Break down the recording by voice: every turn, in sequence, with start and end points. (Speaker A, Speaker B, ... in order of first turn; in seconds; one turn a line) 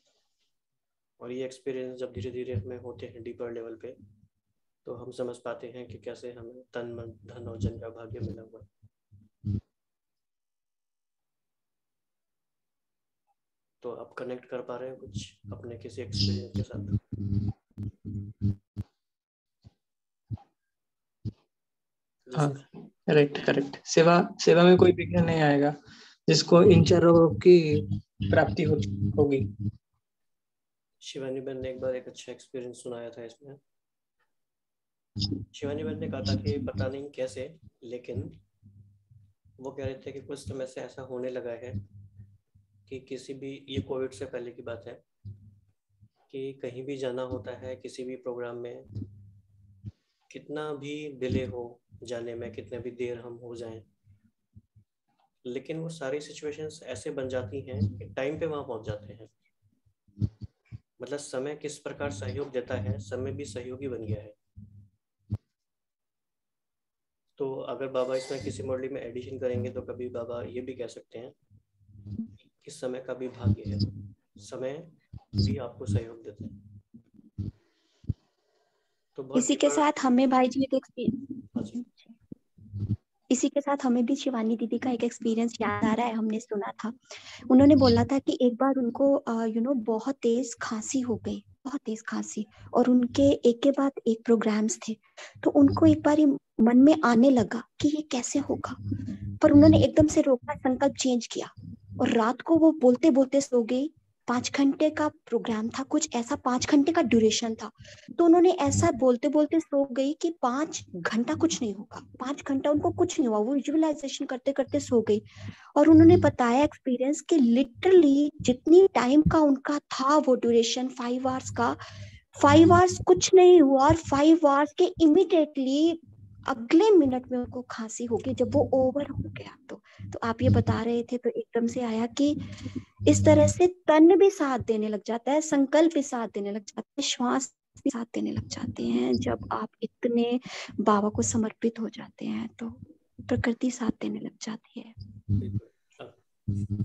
Speaker A: 1.2-4.0
Speaker A: 4.8-8.7
Speaker A: 13.8-17.0
Speaker A: 22.3-22.7
Speaker B: 22.4-25.8
Speaker B: 26.3-29.5
Speaker A: 31.0-33.6
Speaker A: 35.5-38.4
Speaker A: 39.6-41.8
Speaker A: 42.9-45.0
Speaker A: 46.3-48.9
Speaker A: 50.3-53.9
Speaker A: 55.5-59.3
Speaker A: 61.0-64.4
Speaker A: 67.4-71.3
Speaker A: 72.6-76.5
Speaker A: 79.2-79.9
Speaker C: 79.3-82.2
Speaker A: 81.6-81.8
Speaker C: 83.3-98.8
Speaker C: 99.4-115.2
Speaker C: 115.8-121.8
Speaker C: 122.4-132.4
Speaker C: 133.1-144.9
Speaker A: 145.4-146.2